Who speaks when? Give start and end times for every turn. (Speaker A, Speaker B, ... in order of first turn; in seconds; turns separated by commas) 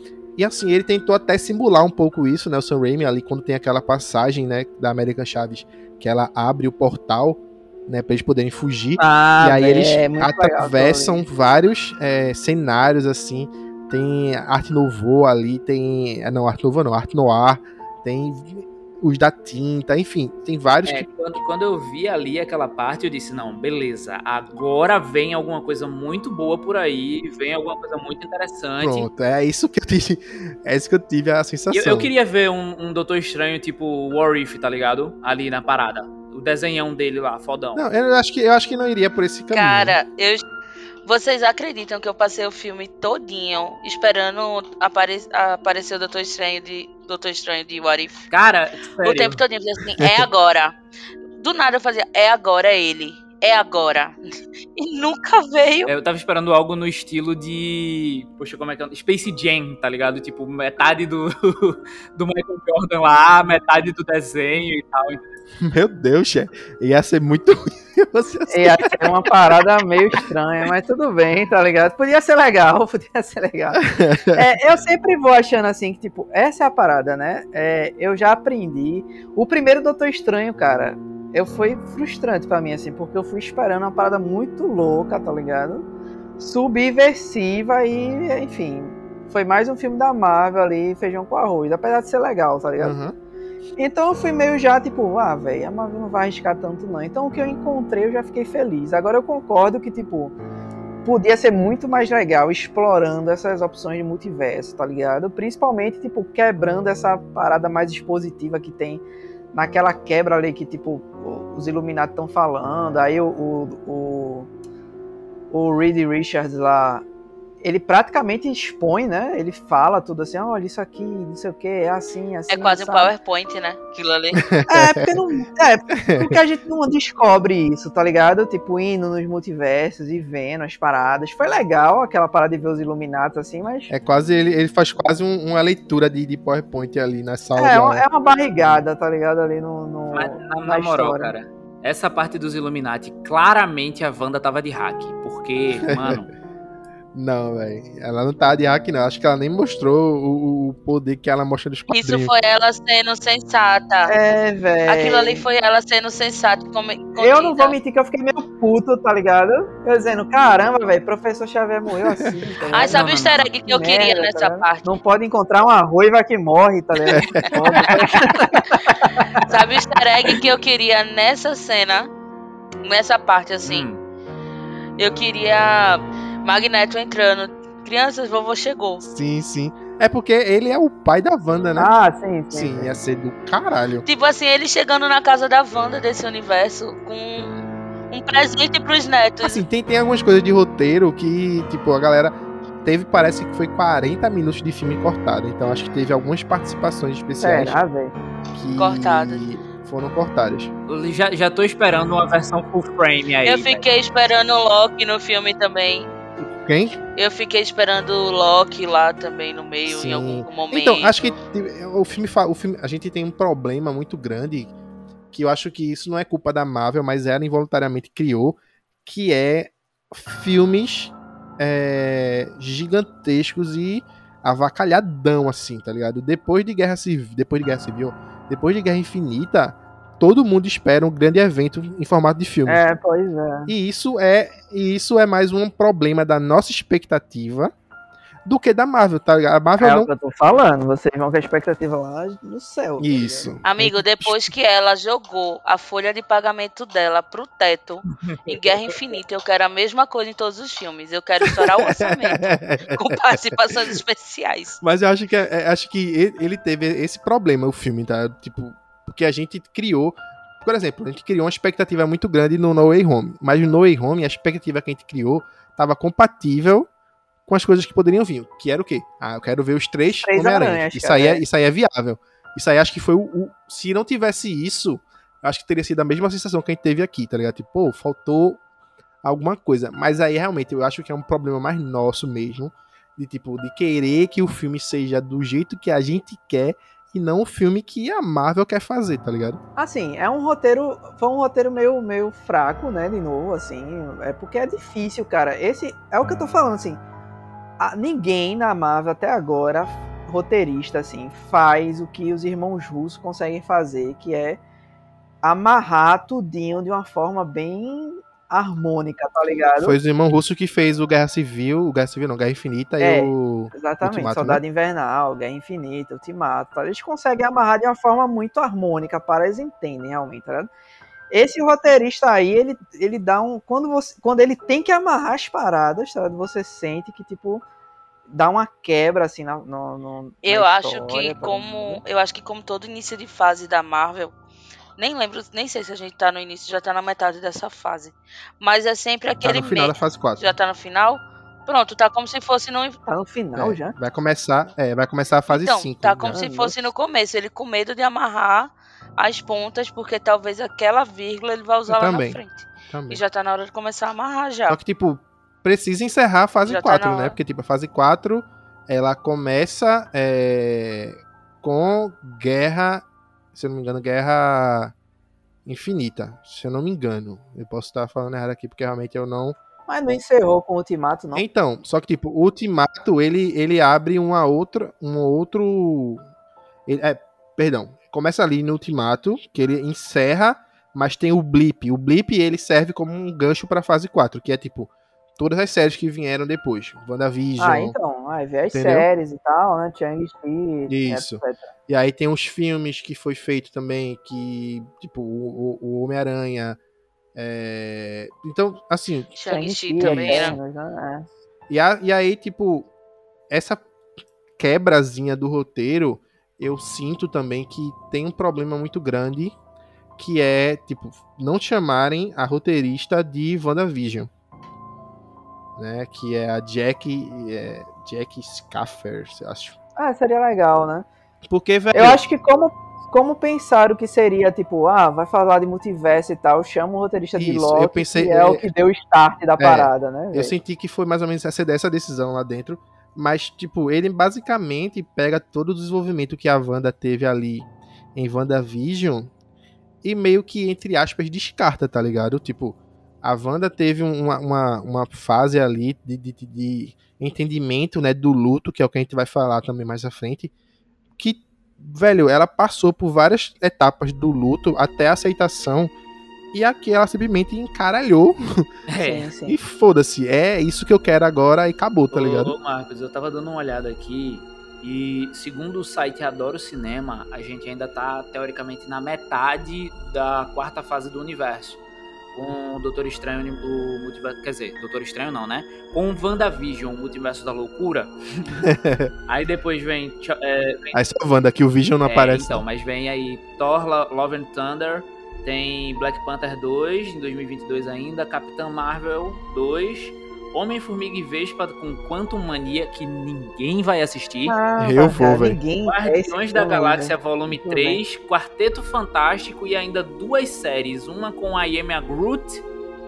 Speaker A: 0.4-21.1, Speaker B: 9.0-11.2, Speaker C: 20.8-29.1, Speaker A: 28.8-32.1, Speaker C: 31.7-37.8, Speaker A: 37.8-40.0, Speaker D: 39.5-40.4, Speaker D: 41.0-48.3, Speaker C: 48.3-49.4, Speaker D: 49.0-50.8, Speaker A: 50.0-50.2, Speaker D: 51.4-54.1, Speaker D: 54.8-55.9, Speaker C: 55.9-65.4, Speaker A: 65.6-69.1, Speaker B: 68.5-73.8, Speaker A: 73.8-74.4, Speaker B: 74.3-85.8, Speaker B: 86.4-92.9, Speaker A: 92.8-93.1, Speaker B: 93.8-100.3, Speaker B: 101.0-109.0, Speaker B: 109.5-114.5, Speaker B: 115.5-117.0, Speaker B: 117.6-123.1, Speaker D: 122.5-124.4, Speaker A: 124.4-125.2, Speaker B: 124.7-133.9, Speaker A: 126.0-126.4, Speaker A: 133.9-138.0, Speaker B: 137.6-141.3, Speaker C: 140.1-146.3, Speaker A: 145.8-146.2, Speaker A: 147.1-152.3, Speaker D: 151.9-154.1, Speaker B: 154.1-155.4, Speaker D: 154.9-157.8, Speaker B: 157.2-169.6, Speaker D: 162.7-164.8, Speaker C: 162.8-163.5, Speaker A: 167.1-167.5, Speaker D: 167.8-168.1, Speaker D: 169.5-172.1, Speaker D: 172.8-173.8, Speaker C: 173.7-174.0, Speaker D: 175.0-179.0, Speaker A: 179.0-181.9, Speaker B: 181.8-182.9, Speaker A: 182.5-184.0, Speaker D: 184.0-187.6, Speaker D: 188.1-189.6, Speaker A: 189.4-197.8, Speaker B: 197.4-198.2, Speaker A: 198.5-200.7, Speaker D: 198.8-199.5, Speaker C: 200.9-203.8, Speaker D: 203.4-206.1, Speaker A: 206.4-207.0, Speaker D: 207.2-211.4, Speaker A: 209.8-214.7, Speaker A: 215.3-232.8, Speaker B: 232.7-233.7, Speaker A: 233.7-237.7, Speaker A: 238.4-240.1, Speaker B: 239.8-243.5, Speaker A: 243.0-244.4, Speaker D: 243.6-254.8, Speaker A: 251.8-253.6, Speaker A: 254.8-266.9, Speaker A: 267.5-278.6, Speaker B: 270.1-271.4, Speaker A: 279.2-289.6, Speaker B: 289.8-297.0, Speaker B: 297.8-304.6, Speaker B: 305.4-310.0, Speaker A: 309.8-314.6, Speaker B: 313.0-320.7, Speaker B: 321.3-327.6, Speaker B: 328.3-332.0, Speaker D: 330.4-334.3, Speaker D: 335.0-343.0, Speaker A: 339.4-340.5, Speaker B: 343.1-343.9, Speaker A: 343.5-346.4, Speaker D: 345.5-354.8, Speaker B: 346.2-346.9, Speaker A: 351.9-353.2, Speaker A: 354.7-364.9, Speaker D: 356.6-357.4, Speaker A: 365.6-369.6, Speaker B: 369.9-371.4, Speaker A: 371.3-376.2, Speaker A: 376.9-387.9, Speaker B: 387.6-391.7, Speaker A: 388.7-389.1, Speaker A: 390.9-396.8, Speaker A: 397.3-399.3, Speaker D: 399.3-400.6, Speaker B: 399.5-401.3, Speaker A: 400.0-400.6, Speaker A: 401.7-402.9, Speaker A: 403.5-403.8, Speaker A: 404.6-409.5, Speaker A: 410.2-414.3, Speaker A: 415.8-419.8, Speaker B: 420.0-421.1, Speaker A: 421.4-422.2, Speaker B: 421.9-430.5, Speaker A: 427.4-428.7, Speaker A: 429.6-439.3, Speaker A: 440.0-450.5, Speaker A: 451.2-455.9, Speaker A: 456.5-458.7, Speaker C: 458.9-459.3, Speaker B: 459.0-459.6, Speaker A: 459.4-462.5, Speaker C: 462.1-471.8, Speaker C: 472.3-478.6, Speaker A: 478.6-479.1, Speaker C: 479.3-481.0, Speaker A: 480.9-482.6, Speaker C: 482.0-494.6, Speaker B: 494.5-498.0, Speaker A: 494.8-495.6, Speaker C: 495.8-502.6